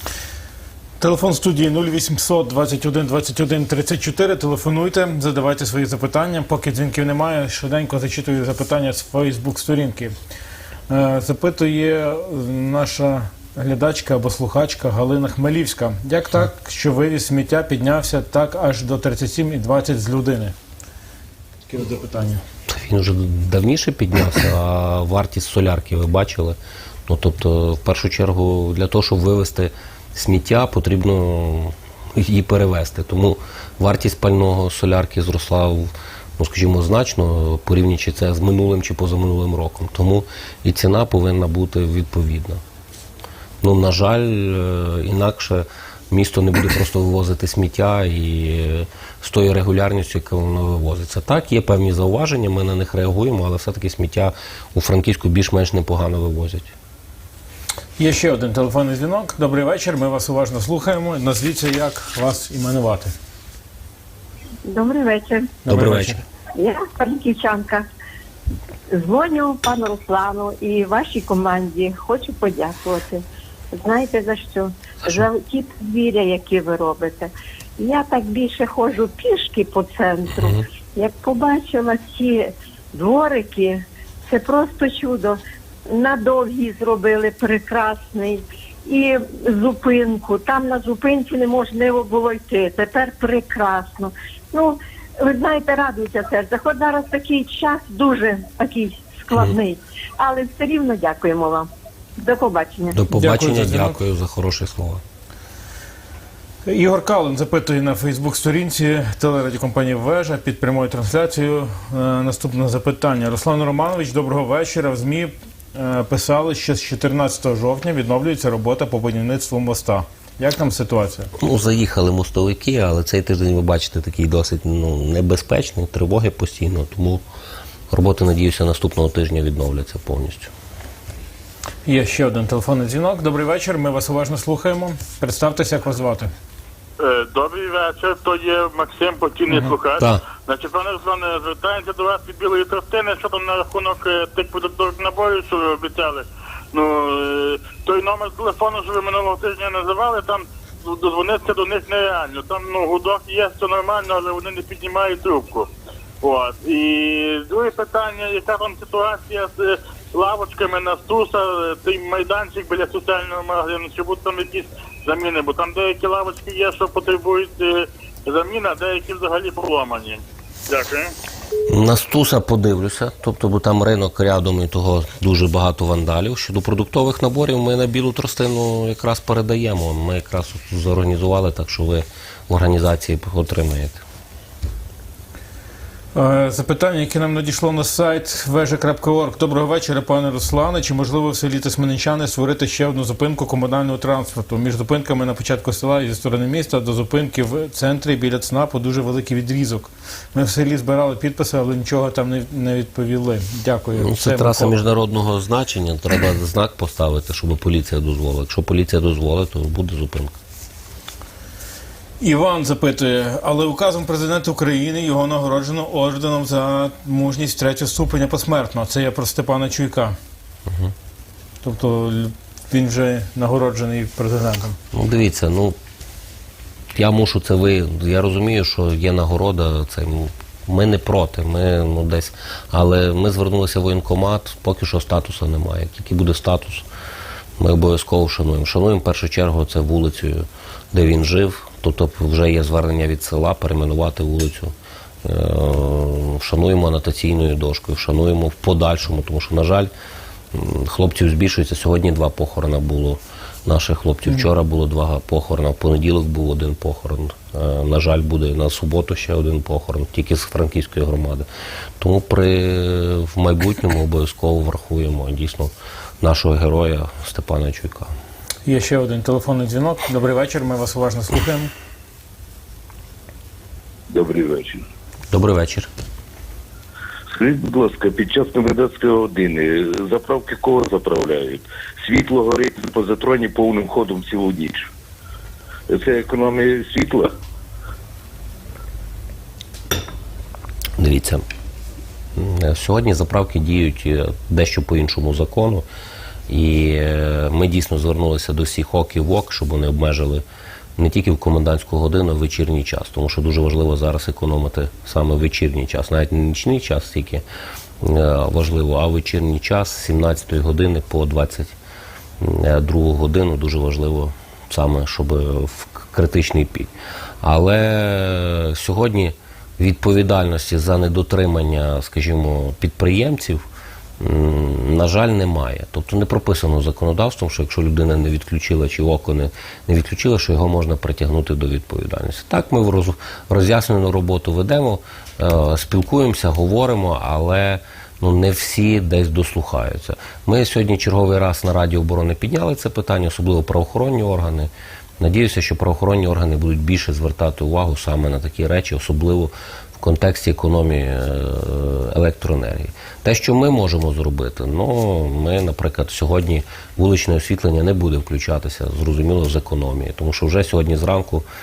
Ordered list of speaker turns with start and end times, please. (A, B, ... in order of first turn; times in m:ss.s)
0:01.0-0:10.1 A
0:10.9-0:20.5 A
0:21.7-0:22.4 A
0:22.7-0:42.6 B
0:43.6-0:56.7 B
0:58.0-1:03.1 A
1:04.6-1:05.6 C
1:05.6-1:06.2 A
1:05.7-1:06.2 B
1:06.6-1:07.9 C
1:08.9-1:43.0 C
1:42.9-1:45.0 B
1:43.1-1:44.0 A
1:46.7-2:01.3 A
2:01.4-2:07.2 B
2:07.9-2:10.5 B
2:11.9-2:16.3 A
2:17.0-2:35.7 D
2:20.0-2:20.2 B
2:36.2-2:51.1 D
2:51.7-3:04.0 B
3:06.2-3:24.8 A
3:24.0-3:30.4 B
3:32.2-3:40.2 A
3:40.7-3:40.9 B
3:41.6-3:44.8 A
3:44.9-3:45.8 B
3:46.9-3:56.9 B
3:57.6-4:09.9 B
4:10.5-4:21.5 B
4:22.0-4:28.1 B
4:28.7-4:31.7 A
4:34.1-4:34.9 E
4:35.3-4:35.9 B
4:37.3-4:44.9 E
4:45.9-4:47.3 E
4:51.0-4:51.4 B
4:52.4-4:55.9 B
4:56.5-5:00.4 B
5:01.0-5:07.4 B
5:08.0-5:11.8 B
5:12.4-5:23.6 B
5:24.2-6:01.5 B